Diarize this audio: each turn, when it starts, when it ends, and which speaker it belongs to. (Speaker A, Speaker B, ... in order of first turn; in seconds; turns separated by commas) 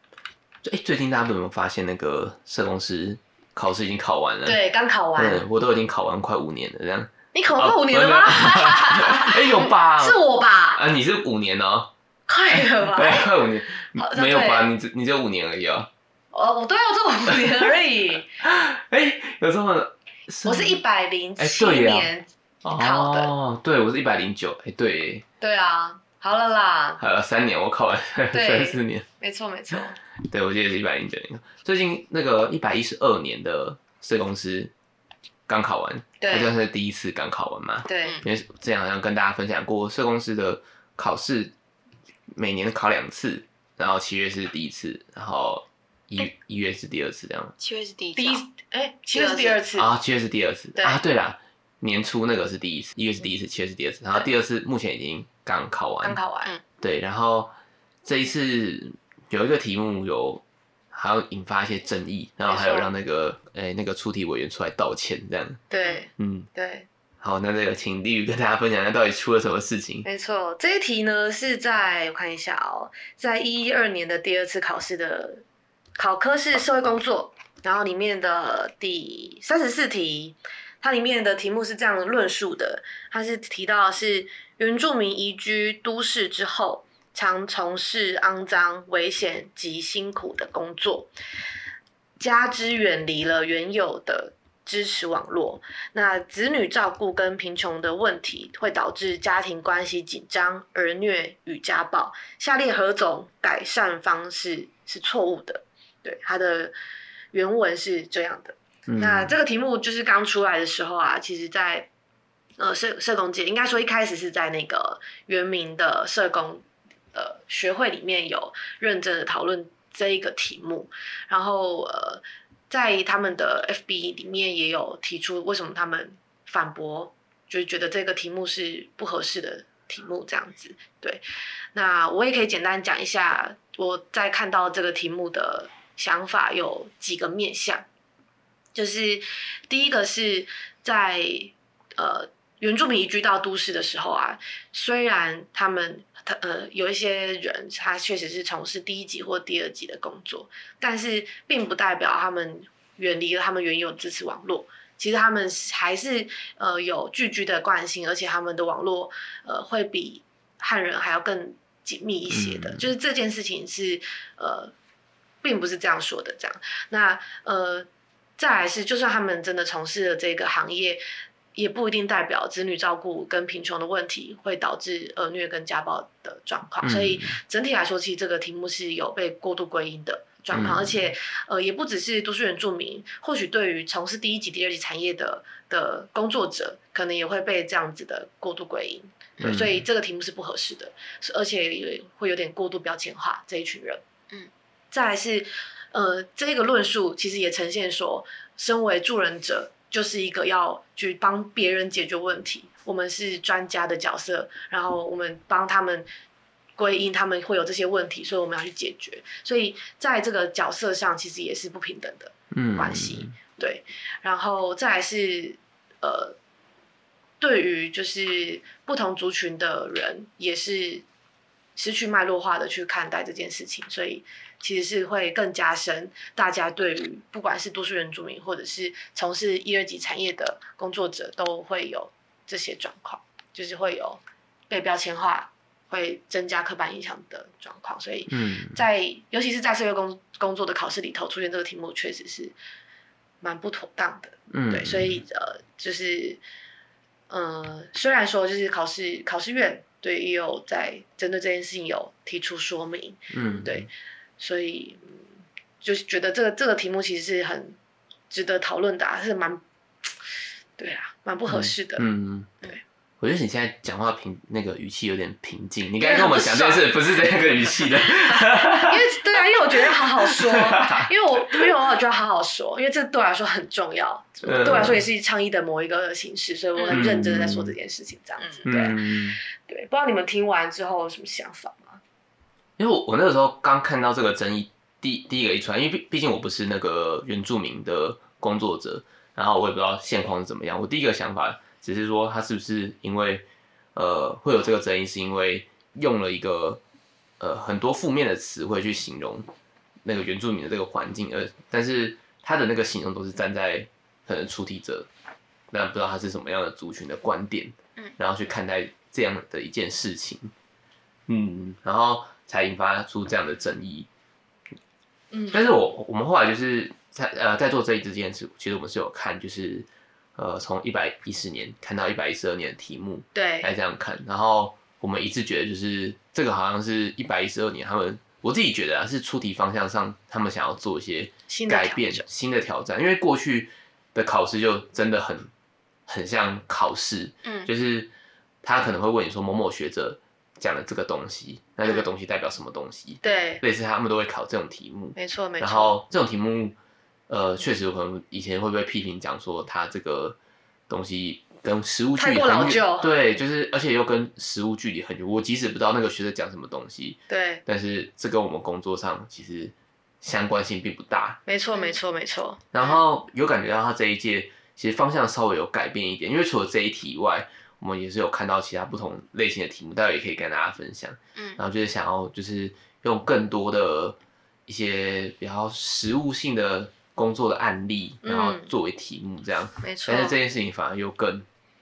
Speaker A: 0.6-4.6, Speaker B: 4.5-5.4, Speaker A: 5.2-10.2, Speaker B: 7.3-10.8, Speaker A: 10.7-11.9, Speaker B: 12.3-13.3, Speaker A: 12.5-15.9, Speaker B: 14.0-14.7, Speaker B: 16.3-18.3, Speaker A: 17.3-17.6, Speaker A: 18.4-20.8, Speaker B: 20.4-23.3, Speaker A: 21.4-22.1, Speaker A: 22.6-25.2, Speaker B: 25.4-27.0, Speaker A: 27.0-29.1, Speaker B: 28.3-30.0, Speaker A: 30.2-34.7, Speaker A: 35.5-41.5, Speaker B: 36.2-36.5, Speaker B: 37.9-38.2, Speaker A: 42.3-47.6, Speaker C: 47.6-48.4, Speaker B: 48.2-49.9, Speaker C: 49.1-49.6, Speaker A: 49.8-56.2, Speaker B: 50.8-51.0, Speaker B: 56.0-56.5, Speaker A: 56.8-57.5, Speaker A: 58.0-65.6, Speaker B: 62.5-62.9, Speaker B: 65.7-66.9, Speaker A: 66.2-66.5, Speaker A: 67.2-70.1, Speaker B: 70.0-75.4, Speaker B: 76.0-91.1, Speaker B: 92.2-106.7, Speaker B: 107.3-111.9, Speaker A: 108.9-109.4, Speaker B: 112.6-131.2, Speaker B: 131.7-137.9, Speaker B: 138.8-164.7, Speaker A: 162.3-162.9, Speaker B: 165.4-171.0, Speaker B: 171.6-194.0, Speaker A: 176.8-177.4, Speaker A: 180.5-181.0, Speaker A: 189.4-189.8, Speaker B: 194.9-206.1, Speaker B: 206.8-216.4, Speaker A: 212.5-213.3, Speaker B: 217.4-221.1, Speaker B: 221.8-242.6, Speaker A: 238.3-238.8, Speaker B: 243.4-246.4, Speaker A: 244.5-245.2, Speaker B: 247.3-255.2, Speaker A: 253.3-253.9, Speaker B: 255.8-257.8, Speaker B: 258.3-259.6, Speaker B: 260.8-262.1, Speaker A: 261.5-262.6, Speaker A: 263.2-269.0, Speaker B: 266.0-266.9, Speaker B: 268.8-282.0, Speaker A: 269.8-271.7, Speaker A: 274.4-275.0, Speaker C: 276.8-277.1, Speaker A: 276.9-277.8, Speaker A: 278.6-279.4, Speaker A: 282.8-296.8, Speaker A: 297.4-299.5, Speaker A: 300.1-305.1, Speaker A: 305.7-310.5, Speaker A: 311.3-314.1, Speaker B: 315.3-315.6, Speaker A: 315.5-335.5, Speaker B: 323.3-323.7, Speaker B: 331.5-332.2, Speaker A: 336.1-338.1, Speaker C: 337.4-337.7, Speaker A: 338.6-346.8, Speaker B: 343.2-343.6, Speaker B: 345.2-346.0, Speaker A: 347.3-350.4, Speaker A: 350.9-361.4, Speaker B: 352.2-353.1, Speaker B: 357.3-357.6, Speaker B: 361.5-362.6, Speaker A: 362.7-381.5, Speaker B: 378.2-378.7, Speaker B: 379.8-380.4